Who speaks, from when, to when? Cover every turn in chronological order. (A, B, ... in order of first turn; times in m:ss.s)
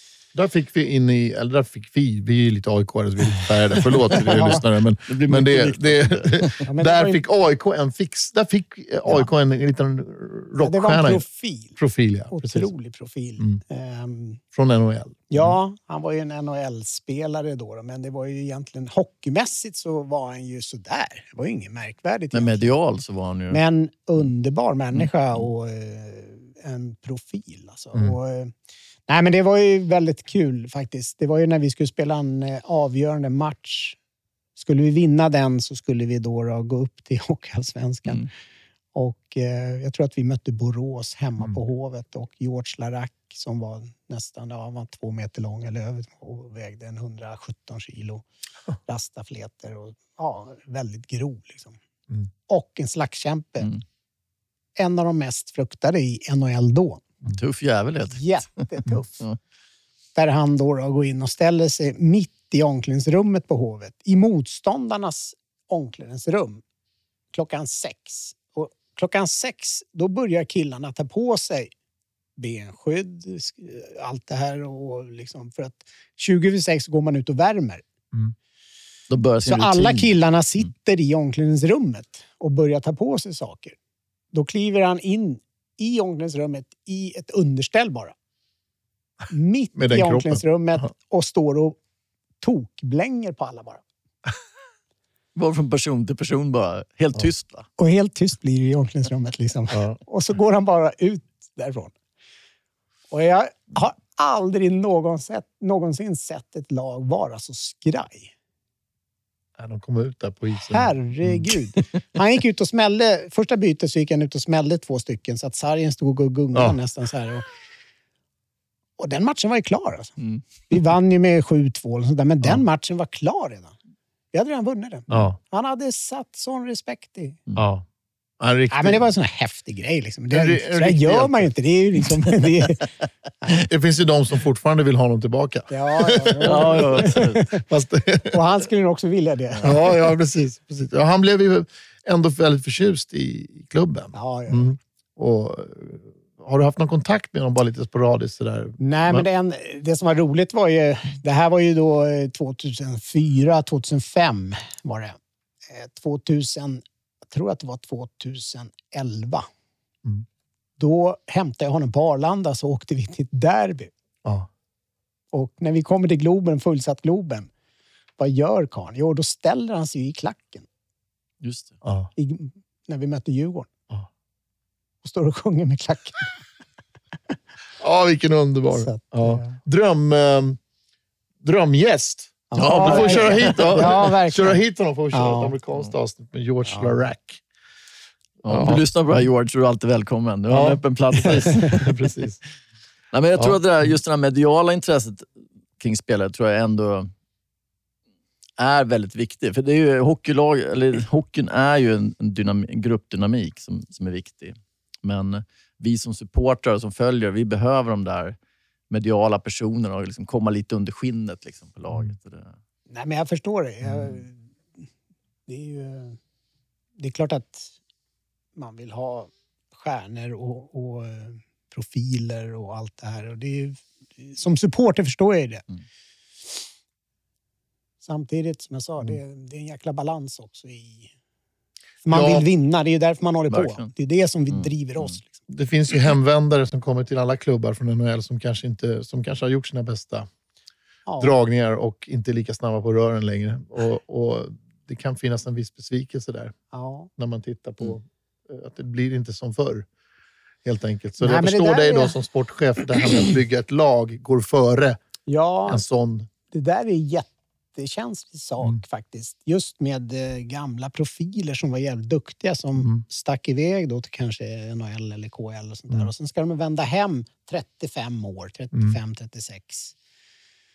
0:00.3-0:11.2 A
0:04.1-0:04.6 B
0:04.1-0:06.6 C
0:06.6-0:07.2 B
0:10.6-0:11.8 B
0:11.8-0:12.7 A
0:12.3-0:14.4 B
0:14.5-0:15.5 A
0:15.3-0:22.7 B
0:22.3-0:23.6 C
0:23.5-0:28.5 B
0:29.1-0:34.0 B
0:34.6-0:38.2 B
0:38.9-0:48.2 B
0:48.8-0:51.8 B
0:52.5-0:53.7 B
0:54.8-0:57.0 B
0:57.3-0:58.3 C
0:58.1-0:59.2 B
1:00.2-1:06.6 B
1:07.3-1:11.7 B
1:12.4-1:17.8 B
1:19.1-1:20.1 C
1:19.4-1:23.8 B
1:24.3-1:28.2 B
1:29.3-1:31.8 B
1:29.7-1:30.8 A
1:32.4-1:33.8 B
1:35.3-1:37.7 C
1:37.8-1:41.9 B
1:39.7-1:40.0 A
1:43.1-1:48.3 B
1:49.6-1:51.5 A
1:50.5-1:57.5 B
1:59.0-2:00.2 B
2:00.7-2:03.8 B
2:04.3-2:07.4 B
2:05.1-2:05.4 A
2:07.6-2:07.8 A
2:08.4-2:09.1 A
2:08.7-2:12.9 B
2:10.3-2:11.5 A
2:13.6-2:18.4 A
2:15.7-2:17.6 B
2:16.4-2:17.5 C
2:18.3-2:19.8 B
2:19.6-2:29.3 A
2:24.1-2:24.7 B
2:28.8-2:35.2 B
2:35.7-2:39.5 B
2:40.8-2:43.9 B
2:45.3-2:47.5 B
2:48.2-2:50.7 B
2:51.4-2:51.8 C
2:51.8-2:52.1 A
2:52.2-2:53.7 B
2:55.0-2:56.4 B
2:57.8-3:00.6 A
2:58.7-2:59.5 B
3:01.4-3:07.4 A
3:02.5-3:04.6 B
3:02.6-3:04.1 C
3:05.1-3:05.5 B
3:06.6-3:07.0 B
3:08.4-3:11.9 C
3:08.5-3:09.2 A
3:10.5-3:12.4 A
3:13.1-3:15.3 C
3:15.8-3:17.1 C
3:18.6-3:28.4 C
3:28.9-3:32.5 C
3:32.9-3:34.4 B
3:33.8-3:34.2 A
3:35.5-3:36.2 B
3:37.0-3:37.7 B
3:38.6-3:45.6 B
3:48.0-3:51.1 B
3:52.0-3:55.4 B
3:52.1-3:52.5 A
3:53.5-3:53.9 C
3:54.5-3:55.0 C
3:55.5-4:00.3 A
4:01.1-4:01.4 B
4:01.2-4:06.6 A
4:06.7-4:07.1 B
4:07.2-4:09.9 A
4:10.6-4:15.0 A
4:11.2-4:12.2 B
4:15.3-4:15.8 B
4:15.7-4:16.3 A
4:16.5-4:29.9 B